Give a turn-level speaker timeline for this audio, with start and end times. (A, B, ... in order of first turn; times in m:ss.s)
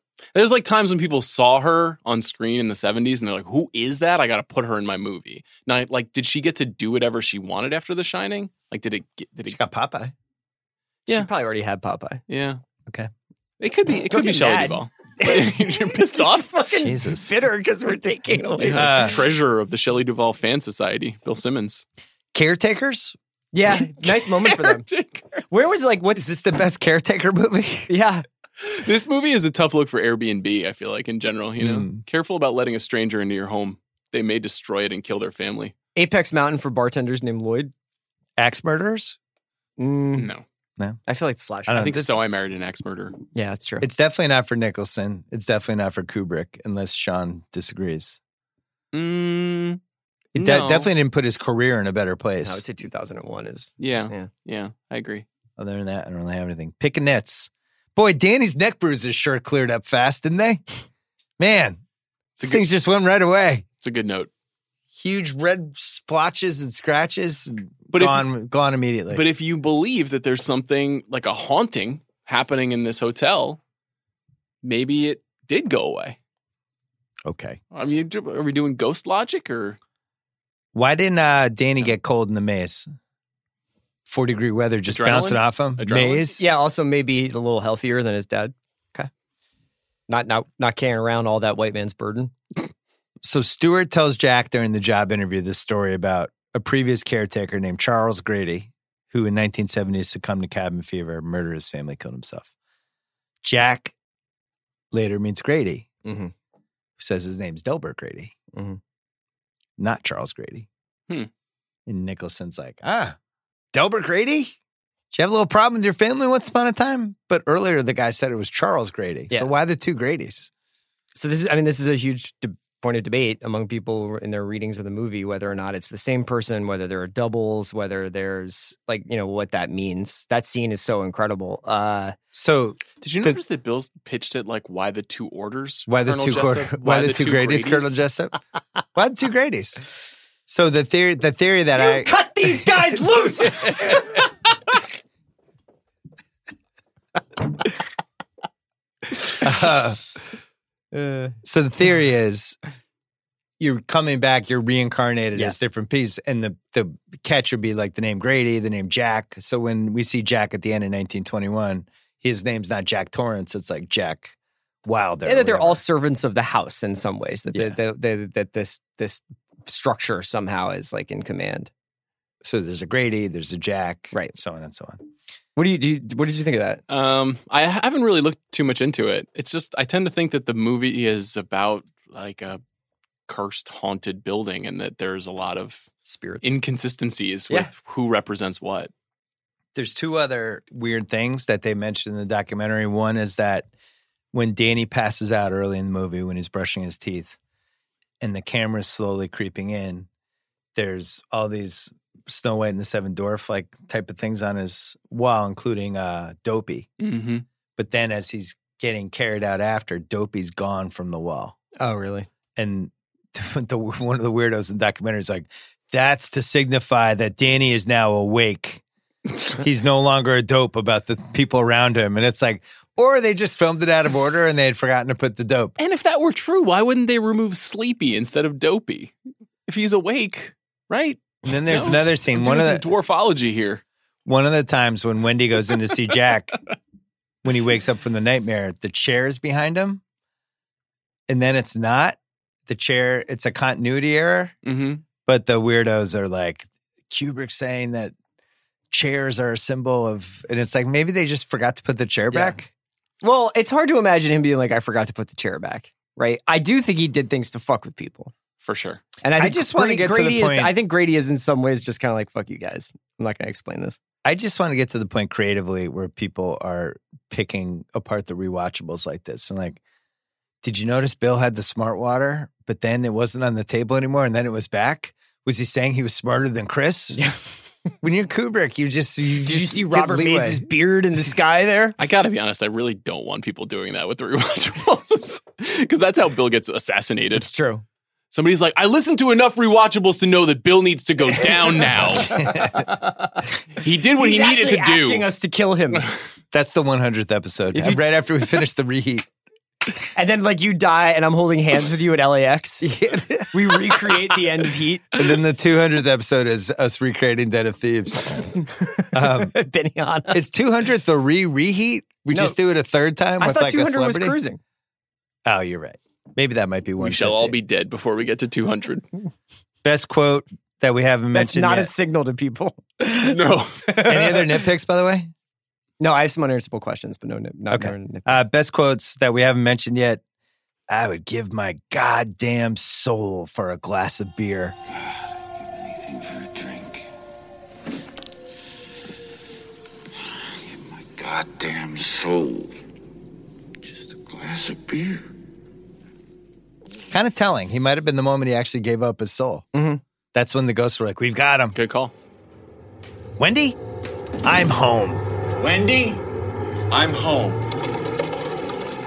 0:00.3-0:09.6 A
0:09.5-0:10.1 B
0:11.1-0:12.2 C
0:12.3-0:12.6 A
0:13.6-0:16.5 A
0:14.1-0:19.0 C
0:16.8-0:17.3 B
0:18.6-0:21.8 A
0:18.7-0:19.2 B
0:22.3-0:23.2 B
0:23.5-0:24.8 C
0:24.0-0:25.4 A
0:25.5-0:26.2 C
0:26.1-0:27.9 B
0:27.9-0:28.2 C
0:28.6-0:35.7 A
0:31.6-0:32.0 B
0:35.9-0:37.7 C
0:38.4-0:39.2 B
0:39.8-0:40.3 C
0:40.2-0:40.4 A
0:41.1-0:42.1 C
0:41.7-0:42.1 B
0:41.7-0:43.2 A
0:43.3-0:43.9 C
0:43.8-0:48.2 B
0:48.9-0:49.8 A
0:50.3-0:50.9 A
0:50.3-0:52.6 B
0:52.4-0:54.3 C
0:53.8-0:55.2 A
0:55.6-1:00.6 B
1:01.4-1:01.8 B
1:02.4-1:03.6 B
1:02.4-1:02.6 A
1:03.8-1:04.3 A
1:04.9-1:09.2 B
1:07.9-1:08.3 A
1:09.1-1:13.6 A
1:14.6-1:16.2 A
1:17.2-1:17.6 B
1:17.7-1:19.8 A
1:20.7-1:22.9 B
1:24.1-1:26.4 B
1:24.9-1:26.4 A
1:26.4-1:28.5 C
1:30.1-1:32.3 C
1:33.2-1:42.5 B
1:43.4-1:43.9 B
1:44.9-1:45.9 B
1:46.0-1:46.3 C
1:47.0-1:48.3 B
1:48.5-1:48.8 C
1:49.8-1:50.7 B
1:51.9-1:53.2 B
1:53.7-1:54.6 B
1:55.1-2:00.5 B
2:01.1-2:12.2 C
2:12.3-2:13.4 B
2:13.0-2:18.0 A
2:15.9-2:18.4 B
2:18.9-2:19.8 B
2:20.5-2:22.1 B
2:21.8-2:24.1 C
2:29.3-2:30.1 B
2:30.9-2:31.3 C
2:31.4-2:32.6 B
2:33.6-2:44.3 B
2:44.8-2:45.8 B
2:45.2-2:51.7 C
2:47.5-2:47.8 B
2:52.4-2:55.0 B
2:55.6-2:56.8 C
2:56.9-3:02.6 A
3:03.3-3:05.9 A
3:06.0-3:06.5 C
3:06.4-3:08.9 A
3:09.7-3:13.7 B
3:14.3-3:17.3 B
3:18.2-3:20.1 B
3:20.8-3:26.9 B
3:27.0-3:27.4 A
3:27.8-3:31.6 B
3:31.8-3:32.3 C
3:32.6-3:38.8 B
3:39.6-3:45.8 B
3:45.8-3:49.1 A
3:49.7-3:53.8 A
3:51.4-3:52.8 B
3:54.2-3:56.6 B
3:57.4-4:00.0 B
4:01.3-4:04.5 B
4:04.6-4:05.0 A
4:05.2-4:08.1 B
4:08.9-4:12.7 B
4:12.3-4:12.6 C
4:13.2-4:18.3 C
4:18.6-4:19.0 A
4:19.2-4:24.0 C
4:19.4-4:20.7 B
4:24.2-4:29.8 B
4:30.6-4:37.2 B
4:38.0-4:40.6 B
4:39.4-4:42.0 C
4:42.0-4:47.5 A
4:47.3-4:47.8 C
4:48.3-4:52.9 A
4:52.2-4:52.8 B
4:52.2-4:52.8 C
4:53.8-4:55.3 A
4:54.1-4:56.1 C
4:56.5-4:59.3 B
4:57.7-4:58.0 C
5:00.1-5:02.9 C
5:02.8-5:04.1 B
5:03.5-5:05.2 C
5:05.1-5:09.5 B
5:08.6-5:10.4 C
5:10.3-5:14.4 B
5:12.3-5:12.6 C
5:13.4-5:14.6 C
5:15.4-5:17.6 B
5:17.0-5:19.1 A
5:19.8-5:21.9 B
5:21.3-5:24.6 C
5:23.2-5:23.8 A
5:24.0-5:25.3 B
5:26.0-5:28.4 C
5:27.7-5:30.2 B
5:30.9-5:34.8 B
5:35.7-5:37.0 D
5:40.7-5:42.7 D
5:44.1-5:45.2 D
5:47.1-5:49.6 B
5:49.7-5:50.0 C
5:50.3-5:51.8 B
5:51.7-5:52.1 A
5:53.4-5:53.8 B
5:54.4-5:55.2 B
5:55.6-5:56.2 D
5:56.9-5:57.6 D